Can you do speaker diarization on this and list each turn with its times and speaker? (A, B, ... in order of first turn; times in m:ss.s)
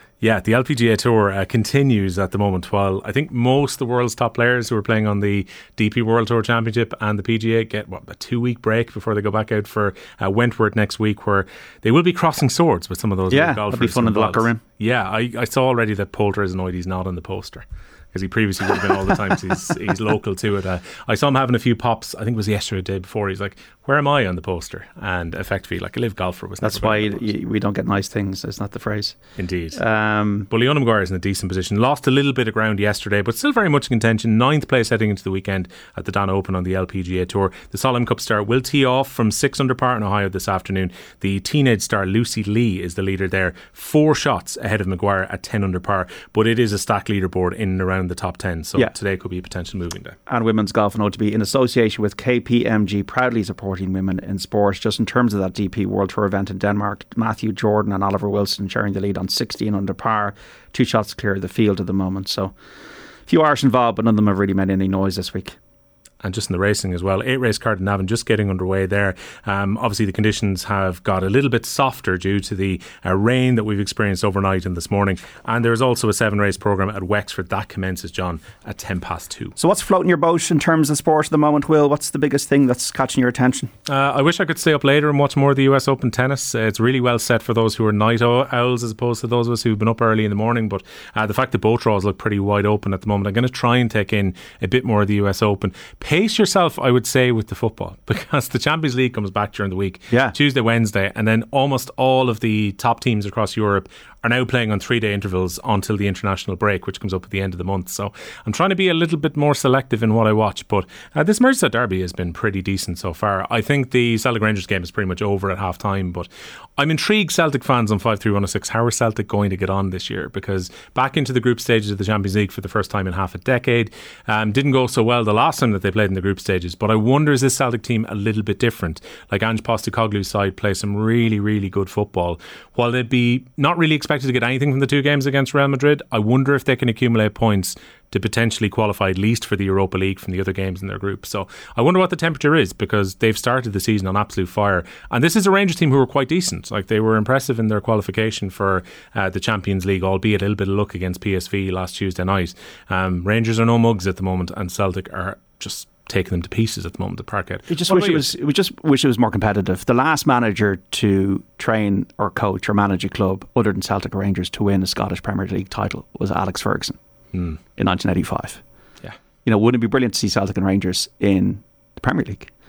0:00.2-0:27.3 A
0:13.3-0:14.6 B
0:26.6-0:29.2 B
0:29.4-0:29.8 A
0:29.8-0:30.5 B
0:30.5-0:50.2 A
0:50.3-1:02.5 B
1:03.3-1:05.6 B
1:06.2-1:19.6 A
1:19.6-1:23.7 B
1:23.9-2:38.3 A
2:37.7-2:47.0 B
2:47.3-2:47.6 A
2:47.8-2:48.6 B
2:49.4-2:52.5 B